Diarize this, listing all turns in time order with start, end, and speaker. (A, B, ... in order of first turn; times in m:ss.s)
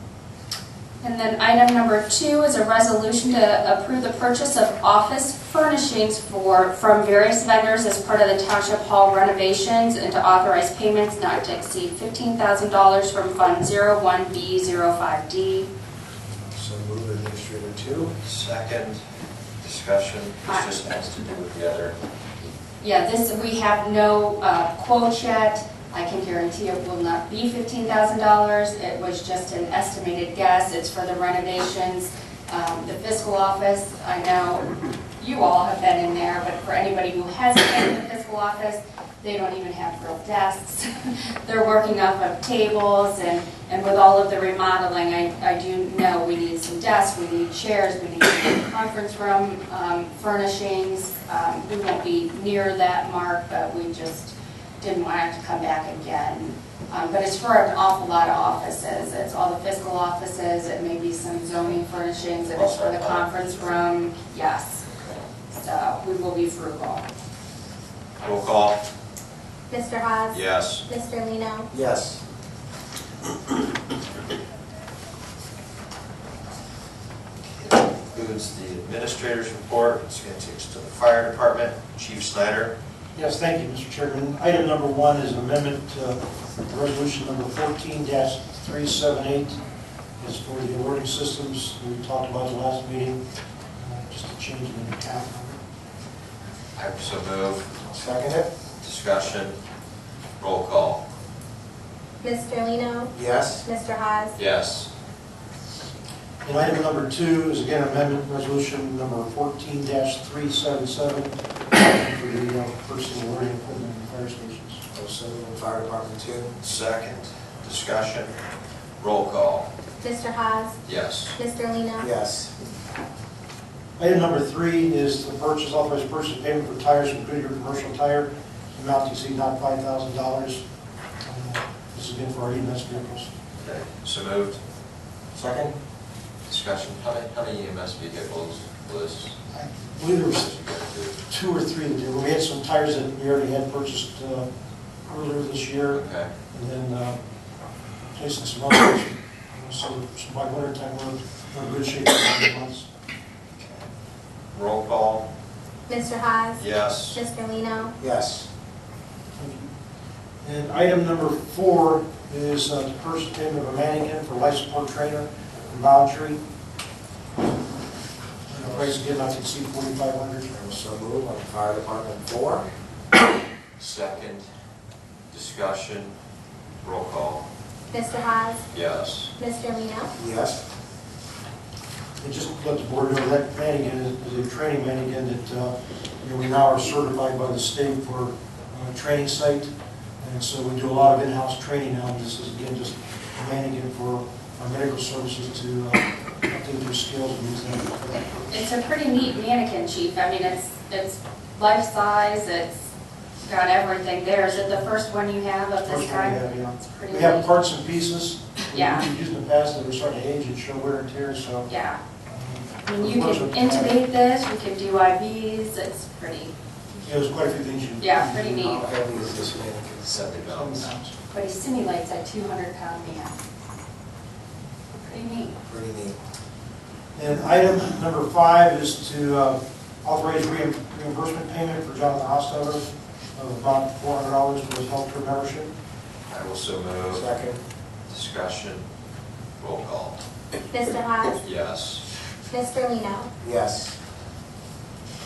0:01.0-0:15.7 A
0:16.5-0:18.1 B
0:18.2-0:19.0 C
0:19.6-0:22.0 C
0:22.8-0:34.7 A
0:35.2-1:04.8 A
1:02.5-1:03.4 C
1:05.5-1:07.0 A
1:08.2-1:08.8 C
1:09.7-1:11.7 D
1:10.3-1:10.8 C
1:11.7-1:12.2 B
1:17.9-1:22.7 C
1:23.1-1:29.6 E
1:30.2-1:33.2 E
1:33.8-1:35.6 E
1:36.7-1:37.7 C
1:37.8-1:38.5 B
1:38.8-1:39.6 C
1:40.4-1:41.0 C
1:42.2-1:43.1 D
1:43.1-1:43.6 B
1:43.6-1:44.3 D
1:44.4-1:44.9 C
1:46.4-1:54.8 E
1:54.9-1:56.5 B
1:56.6-1:58.3 C
1:59.0-1:59.7 C
2:00.0-2:00.7 D
2:00.8-2:01.4 C
2:01.3-2:02.1 D
2:02.0-2:02.5 B
2:04.0-2:10.6 E
2:11.2-2:13.3 E
2:13.6-2:14.6 C
2:15.3-2:15.7 B
2:16.5-2:19.4 C
2:19.5-2:20.5 E
2:20.3-2:21.2 C
2:21.3-2:24.5 E
2:25.1-2:27.2 E
2:25.9-2:26.3 C
2:28.1-2:32.9 E
2:33.6-2:33.9 C
2:34.5-2:35.3 C
2:35.9-2:37.9 D
2:36.6-2:37.2 C
2:38.0-2:38.5 B
2:39.4-2:39.7 E
2:40.4-2:46.4 E
2:48.5-2:50.6 E
2:48.5-2:49.0 B
2:50.5-2:52.7 B
2:53.8-2:54.4 C
2:55.3-2:56.1 C
2:56.8-2:57.4 C
2:57.9-2:58.6 D
2:58.7-2:59.3 C
2:59.4-3:00.1 D
3:00.2-3:00.6 B
3:02.2-3:18.5 E
3:18.5-3:22.8 A
3:23.4-3:27.4 A
3:25.8-3:31.7 E
3:28.7-3:29.1 A
3:31.7-3:32.0 A
3:32.3-3:34.0 E
3:32.8-3:36.5 A
3:37.0-3:38.8 E
3:38.0-3:38.9 A
3:38.6-3:40.2 B
3:40.0-3:40.9 C
3:40.4-3:41.1 E
3:41.3-3:43.4 A
3:45.0-3:45.6 A
3:45.6-3:46.2 B
3:47.1-3:55.7 E
3:56.3-3:57.3 C
3:57.1-3:57.6 B
3:58.1-3:58.8 C
3:59.6-4:00.2 C
4:00.7-4:01.4 D
4:01.4-4:02.0 C
4:02.5-4:03.3 D
4:03.4-4:03.9 B